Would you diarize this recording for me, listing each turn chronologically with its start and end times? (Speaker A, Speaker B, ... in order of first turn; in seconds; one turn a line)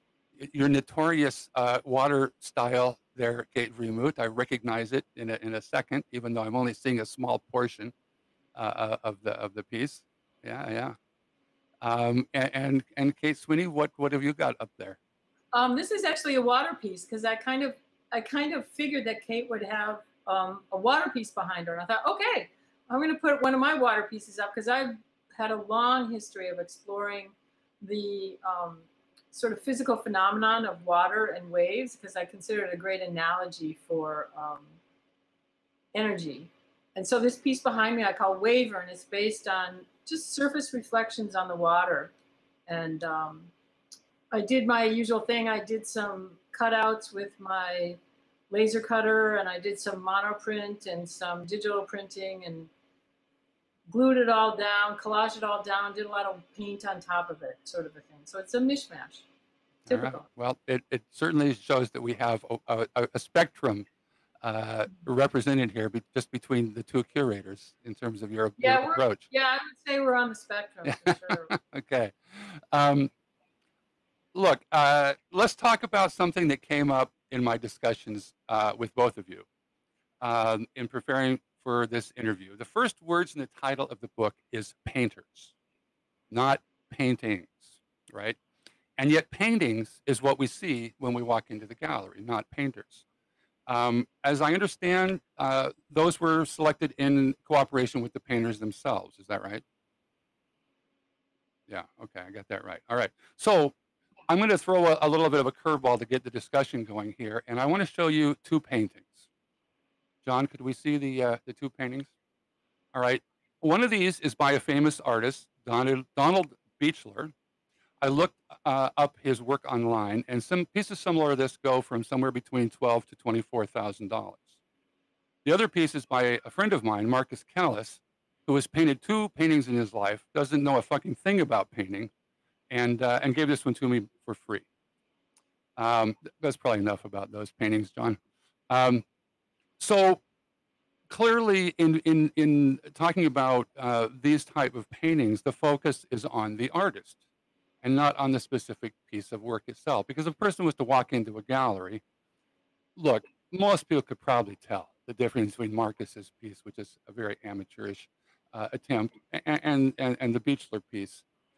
Speaker A: 0.4-7.9
Speaker A: 8.6-11.0
Speaker A: 11.8-15.0
Speaker B: 15.5-34.8
Speaker B: 35.9-42.1
Speaker B: 42.7-43.5
Speaker B: 44.3-48.0
Speaker B: 48.5-52.7
Speaker B: 53.9-59.2
Speaker A: 59.9-63.9
Speaker B: 59.9-60.3
Speaker A: 64.4-69.2
Speaker B: 68.6-71.6
Speaker A: 70.9-73.1
Speaker A: 74.3-79.5
Speaker A: 80.2-85.5
Speaker A: 86.3-88.4
Speaker A: 89.0-93.0
Speaker A: 93.7-99.6
Speaker A: 101.7-103.7
Speaker A: 104.3-109.2
Speaker A: 110.2-112.1
Speaker A: 112.9-117.3
Speaker A: 118.0-124.5
Speaker A: 125.5-132.1
Speaker A: 132.7-134.7
Speaker A: 135.8-138.2
Speaker A: 138.7-139.0
Speaker A: 139.8-140.2
Speaker A: 141.1-147.2
Speaker A: 147.8-152.0
Speaker A: 153.0-161.2